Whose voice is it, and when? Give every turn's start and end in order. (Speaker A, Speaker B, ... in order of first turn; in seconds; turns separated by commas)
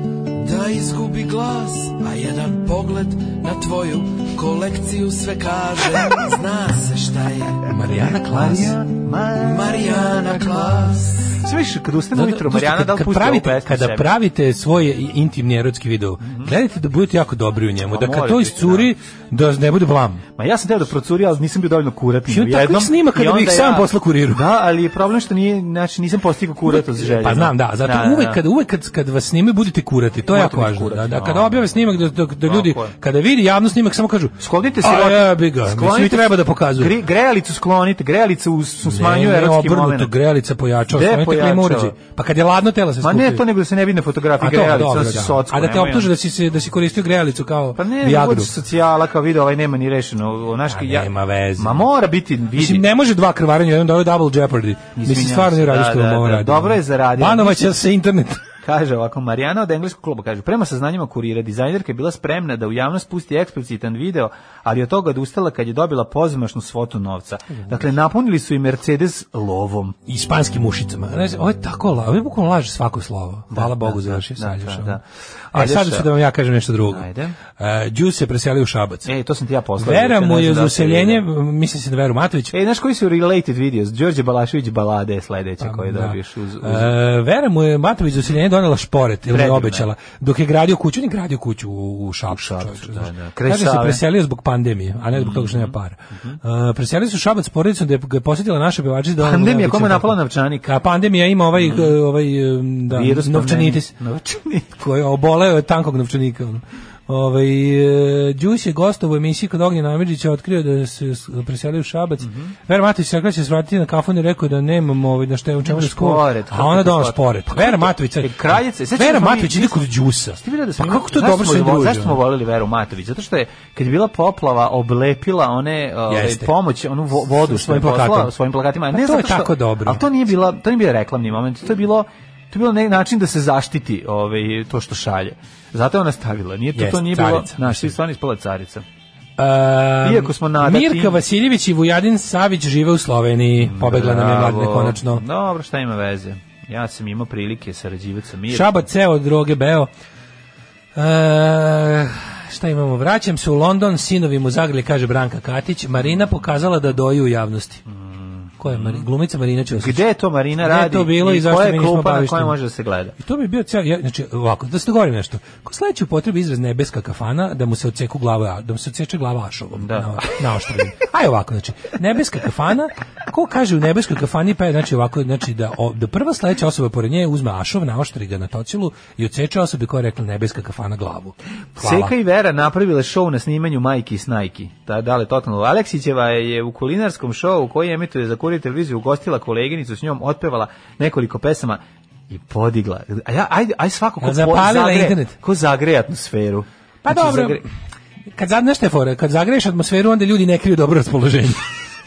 Speaker A: 0.3-7.7, Speaker B: 7.6-8.8, Speaker C: 7.9-14.1, Speaker A: 9.4-11.3, Speaker B: 12.1-20.2, Speaker C: 16.2-16.5, Speaker C: 17.9-18.9, Speaker C: 20.4-28.4, Speaker B: 22.3-24.4, Speaker B: 26.6-36.9, Speaker C: 30.3-31.7, Speaker C: 32.4-32.9, Speaker C: 34.4-40.1, Speaker B: 38.8-43.4, Speaker C: 40.9-42.0, Speaker C: 43.0-46.1, Speaker B: 44.4-48.5, Speaker C: 47.8-52.8, Speaker B: 50.7-51.9, Speaker B: 52.5-58.4, Speaker C: 55.0-57.8, Speaker C: 58.6-70.0, Speaker B: 70.1-75.0, Speaker C: 73.5-76.1, Speaker B: 75.5-79.1, Speaker C: 76.9-77.4, Speaker C: 79.0-81.2, Speaker B: 79.8-82.5, Speaker C: 82.5-86.9, Speaker B: 85.6-103.9, Speaker C: 89.3-89.9, Speaker C: 92.3-94.0, Speaker C: 95.1-96.4, Speaker C: 99.2-100.7, Speaker C: 101.5-102.0, Speaker C: 102.9-104.7, Speaker B: 104.8-122.2, Speaker C: 112.2-112.5, Speaker C: 115.6-119.8, Speaker C: 120.4-138.8, Speaker B: 126.1-126.5, Speaker B: 127.2-128.3, Speaker B: 128.9-130.0, Speaker B: 136.7-138.0, Speaker B: 139.4-145.2, Speaker C: 140.0-141.2, Speaker C: 143.6-148.8, Speaker B: 148.5-149.9, Speaker B: 150.9-157.8, Speaker C: 157.9-159.1, Speaker B: 158.6-160.0, Speaker C: 159.7-163.1, Speaker B: 160.6-162.6, Speaker B: 163.2-182.1, Speaker C: 169.7-170.3, Speaker C: 181.8-197.6, Speaker B: 194.2-195.3, Speaker B: 197.0-197.6, Speaker B: 198.3-201.6